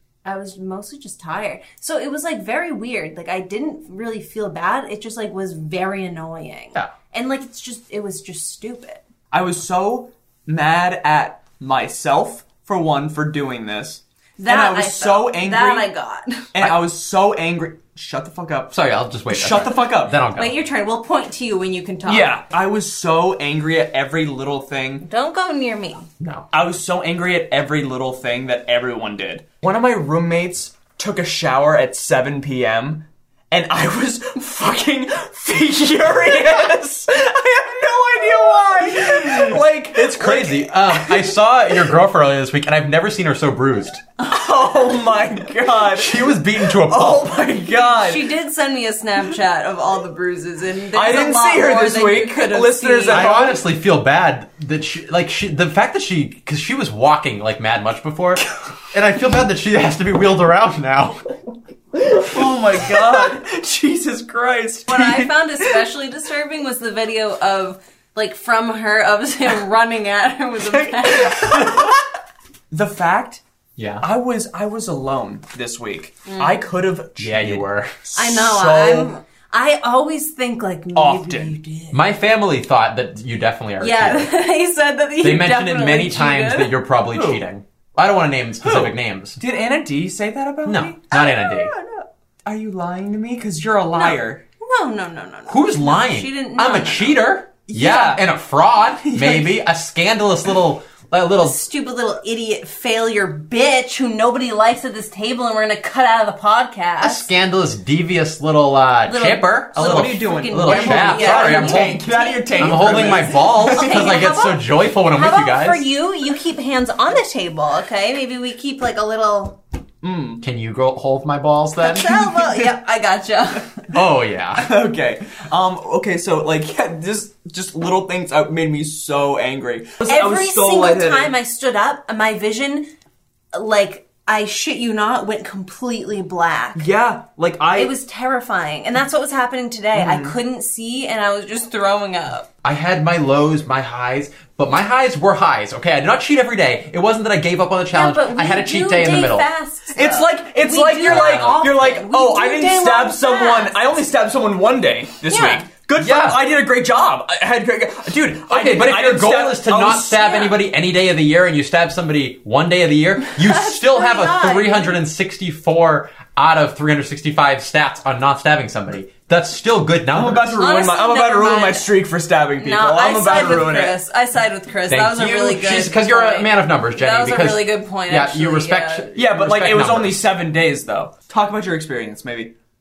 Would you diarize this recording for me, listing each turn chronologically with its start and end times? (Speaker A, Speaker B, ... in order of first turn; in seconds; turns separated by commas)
Speaker A: 0.2-9.0, Speaker B: 9.3-15.9, Speaker A: 14.4-16.5, Speaker B: 16.5-18.7, Speaker C: 18.7-20.5, Speaker B: 19.3-20.2, Speaker A: 20.4-22.4, Speaker B: 22.1-25.1, Speaker A: 25.0-26.1, Speaker C: 26.2-26.5, Speaker B: 26.5-41.4, Speaker C: 39.2-44.0, Speaker B: 44.2-48.3, Speaker C: 45.9-47.3, Speaker A: 47.9-53.3, Speaker B: 50.9-53.6, Speaker C: 53.1-61.2, Speaker B: 62.0-65.7, Speaker A: 64.9-71.9, Speaker B: 70.7-72.0, Speaker B: 72.7-73.4, Speaker C: 73.8-74.0, Speaker B: 74.0-79.2, Speaker A: 76.3-76.6, Speaker C: 77.2-78.0, Speaker A: 78.2-82.0, Speaker B: 81.0-81.6, Speaker C: 81.9-84.3, Speaker A: 83.8-86.7, Speaker C: 85.2-89.4, Speaker B: 87.1-87.4, Speaker B: 88.6-94.4, Speaker C: 90.7-91.7, Speaker A: 93.9-97.2, Speaker C: 95.5-101.6, Speaker B: 97.7-98.3, Speaker B: 99.0-99.6, Speaker A: 101.4-107.3, Speaker C: 107.0-112.0, Speaker A: 109.1-119.6, Speaker B: 109.8-114.3, Speaker C: 112.6-115.8, Speaker B: 120.0-120.4, Speaker C: 120.4-122.3, Speaker A: 121.8-123.8, Speaker C: 123.9-124.7, Speaker B: 124.6-131.3, Speaker A: 130.1-132.9, Speaker A: 133.5-136.9, Speaker B: 136.8-137.9, Speaker A: 137.8-142.5, Speaker B: 139.9-140.4, Speaker C: 142.6-149.5, Speaker A: 147.9-154.0, Speaker B: 149.9-160.4, Speaker C: 151.0-151.6, Speaker A: 155.3-155.7, Speaker C: 156.0-156.4, Speaker C: 158.5-170.6, Speaker A: 160.2-160.6, Speaker A: 163.3-165.0, Speaker B: 170.1-174.0, Speaker A: 170.6-171.9, Speaker A: 172.6-179.1, Speaker C: 174.9-180.2, Speaker B: 179.2-182.5